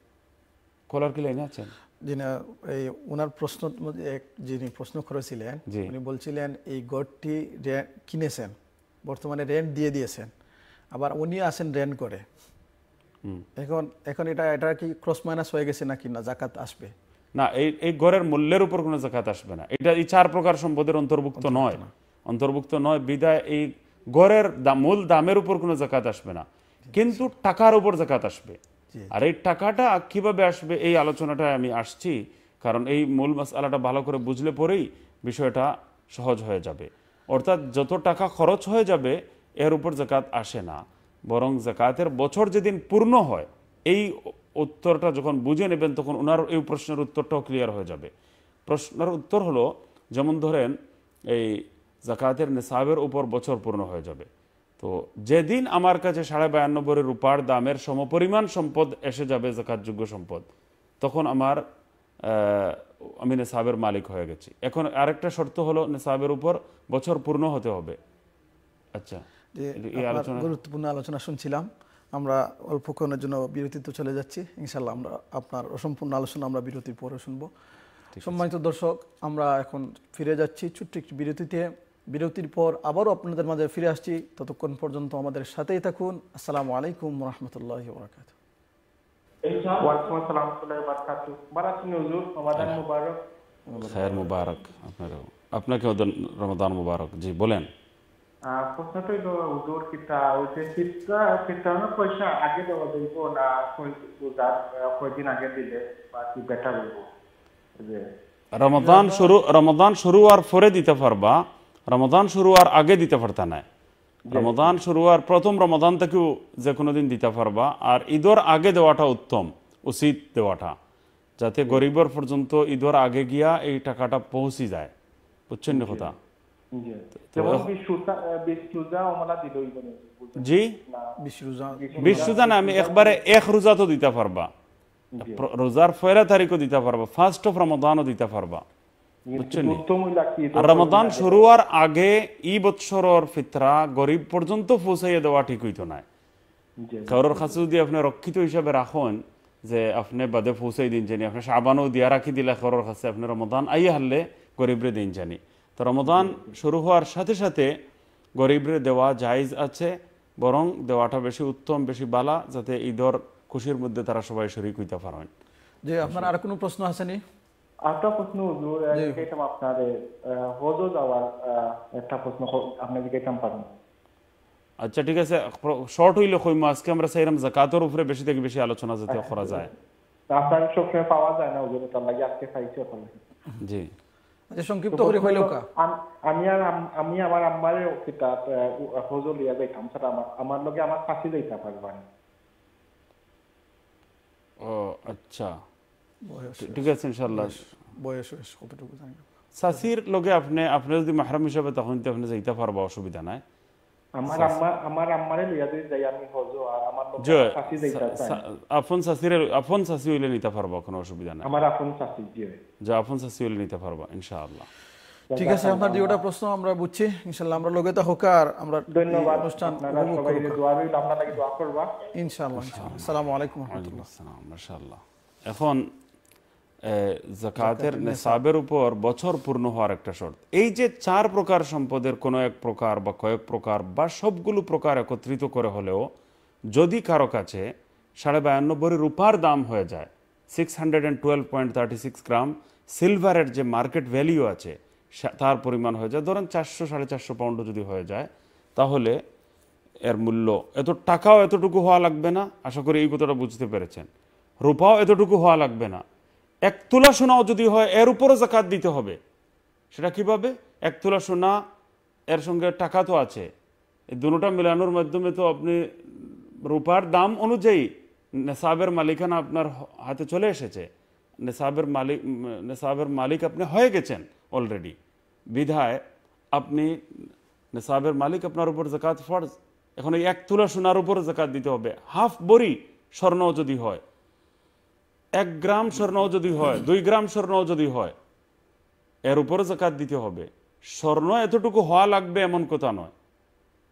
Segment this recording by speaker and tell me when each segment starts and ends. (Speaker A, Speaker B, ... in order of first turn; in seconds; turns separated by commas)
Speaker A: 0.9-1.7, Speaker B: 2.0-10.3, Speaker A: 5.7-5.9, Speaker B: 10.9-12.2, Speaker B: 13.6-16.9, Speaker A: 17.3-28.6, Speaker B: 21.4-21.9, Speaker B: 26.9-27.3, Speaker A: 29.1-48.1, Speaker A: 48.7-50.8, Speaker A: 51.3-54.3, Speaker A: 54.8-60.5, Speaker A: 61.0-61.6, Speaker A: 62.2-68.0, Speaker A: 68.9-69.2, Speaker B: 69.5-77.5, Speaker A: 69.8-70.5, Speaker A: 78.1-78.4, Speaker B: 78.2-88.3, Speaker C: 89.7-93.2, Speaker C: 93.7-94.5, Speaker A: 93.8-97.7, Speaker C: 98.5-107.1, Speaker C: 107.8-108.0, Speaker A: 108.5-113.7, Speaker B: 108.8-109.3, Speaker C: 114.3-114.8, Speaker A: 114.3-120.8, Speaker A: 121.4-124.9, Speaker A: 125.5-126.2, Speaker C: 125.7-126.1, Speaker C: 126.7-131.1, Speaker A: 127.3-127.7, Speaker A: 130.4-130.7, Speaker B: 131.2-132.4, Speaker C: 131.7-133.2, Speaker A: 132.0-134.5, Speaker C: 135.1-135.4, Speaker A: 135.2-138.6, Speaker C: 139.3-141.4, Speaker A: 139.3-139.8, Speaker A: 140.5-146.0, Speaker C: 146.8-147.6, Speaker A: 147.1-157.7, Speaker C: 156.0-156.6, Speaker A: 158.4-165.3, Speaker B: 165.9-167.2, Speaker A: 166.0-166.3, Speaker C: 167.8-173.7, Speaker B: 168.9-169.2, Speaker A: 174.8-179.7, Speaker C: 179.1-179.7, Speaker C: 180.3-183.2, Speaker A: 183.6-183.9, Speaker B: 184.5-185.6, Speaker C: 184.9-192.0, Speaker A: 194.6-195.6, Speaker B: 196.3-199.3, Speaker A: 196.6-197.6, Speaker A: 199.6-203.4, Speaker C: 204.2-208.4, Speaker A: 204.3-204.6, Speaker A: 207.2-211.5, Speaker C: 211.4-212.6, Speaker A: 212.8-214.7, Speaker C: 215.3-216.2, Speaker B: 215.4-220.6, Speaker C: 218.9-221.9, Speaker B: 222.1-224.1, Speaker A: 222.6-225.9, Speaker A: 226.8-236.1, Speaker B: 227.6-228.4, Speaker A: 236.7-249.2, Speaker A: 250.1-254.1, Speaker A: 254.6-256.0, Speaker A: 256.7-259.2, Speaker A: 259.9-261.6, Speaker A: 262.3-263.5, Speaker A: 264.1-270.9, Speaker A: 271.4-275.0, Speaker A: 275.5-276.0, Speaker A: 276.5-277.0, Speaker A: 277.7-284.0, Speaker A: 285.4-288.1, Speaker A: 289.2-293.1